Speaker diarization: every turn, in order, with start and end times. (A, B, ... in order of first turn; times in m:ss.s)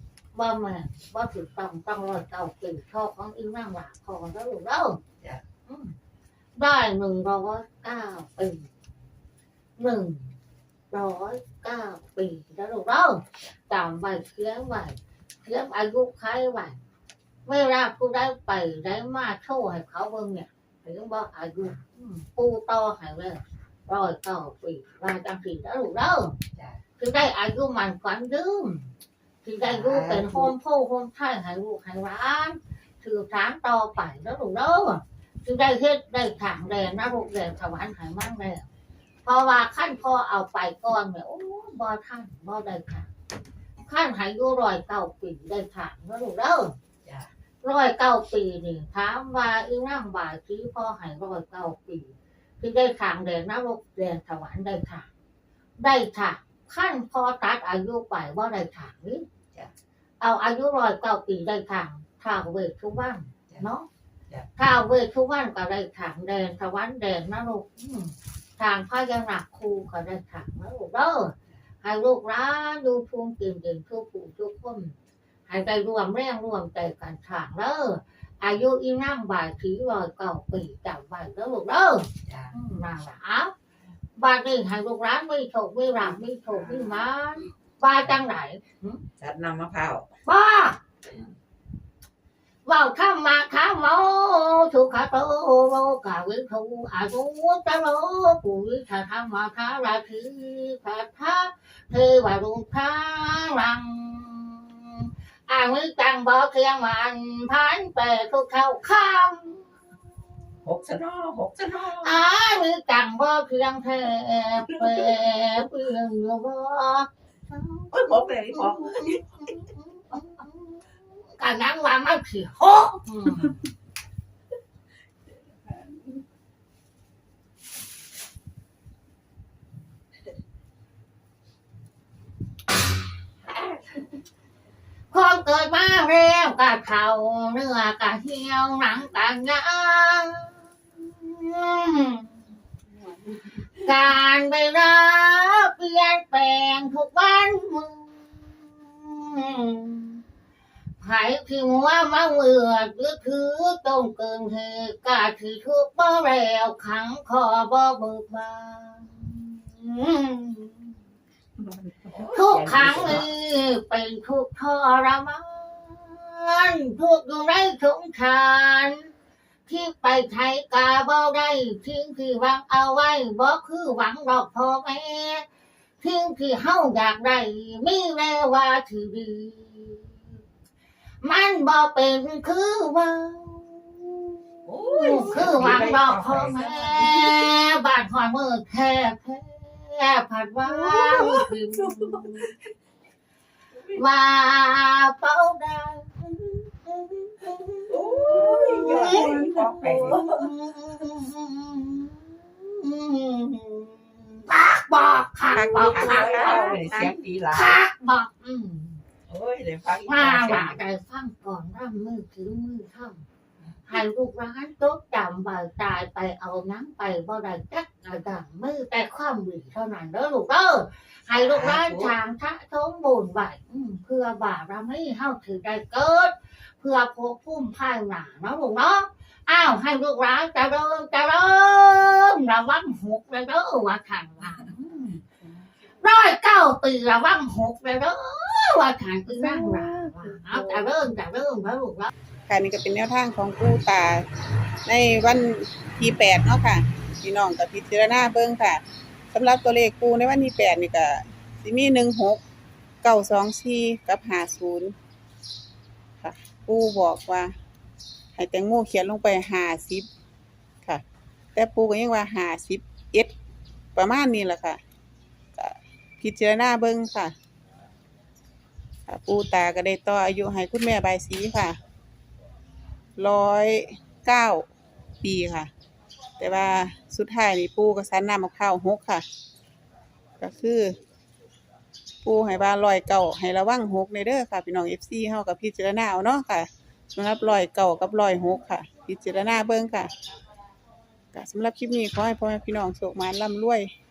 0:00.3-0:05.0 A
0:05.7-0:05.9 A
0:06.6-0:08.7 A
0:09.8-0:10.3 A
0:10.9-0:16.8 A
0:17.4-0:26.4 A
0:26.5-0:26.8 B
0:27.0-0:28.9 A
0:29.4-0:38.7 A
0:29.6-0:30.5 B
0:39.2-0:43.1 A
0:43.8-0:46.7 A
0:47.0-0:47.3 B
0:47.6-0:55.1 A
0:55.8-0:59.2 A
1:00.2-1:03.9 A
1:04.6-1:14.9 A
1:15.5-1:23.5 A
1:22.2-1:22.5 B
1:24.2-1:29.0 A
1:26.0-1:27.0 B
1:29.2-1:30.1 B
1:30.2-1:30.8 A
1:32.6-1:50.0 A
1:50.6-1:52.2 B
1:52.0-2:03.6 A
1:54.7-1:55.1 B
1:57.9-1:59.2 B
2:15.1-2:22.3 A
2:23.8-2:30.2 A
2:31.0-2:40.9 A
2:42.1-2:43.3 B
2:42.3-2:49.1 A
2:49.7-2:55.4 A
2:56.0-3:00.3 A
3:01.2-3:12.5 A
3:04.6-3:07.5 B
3:10.6-3:12.5 B
3:13.9-3:29.0 A
3:17.9-3:20.3 B
3:19.1-3:20.1 C
3:25.5-3:27.8 B
3:29.3-3:30.8 B
3:30.0-3:33.2 A
3:33.9-3:54.8 A
3:41.3-3:42.1 B
3:54.8-3:55.0 B
3:56.0-4:02.1 A
3:59.3-4:00.8 C
4:02.5-4:04.2 C
4:04.8-4:12.4 C
4:13.0-4:14.9 C
4:16.2-4:17.5 C
4:18.3-4:20.1 C
4:21.5-4:23.3 C
4:23.9-4:24.8 C
4:25.6-4:27.3 C
4:29.1-4:31.8 C
4:33.2-4:34.7 C
4:35.2-4:35.7 C
4:36.4-4:39.2 C
4:40.4-4:41.0 C
4:42.2-4:50.1 C
4:51.3-4:53.9 C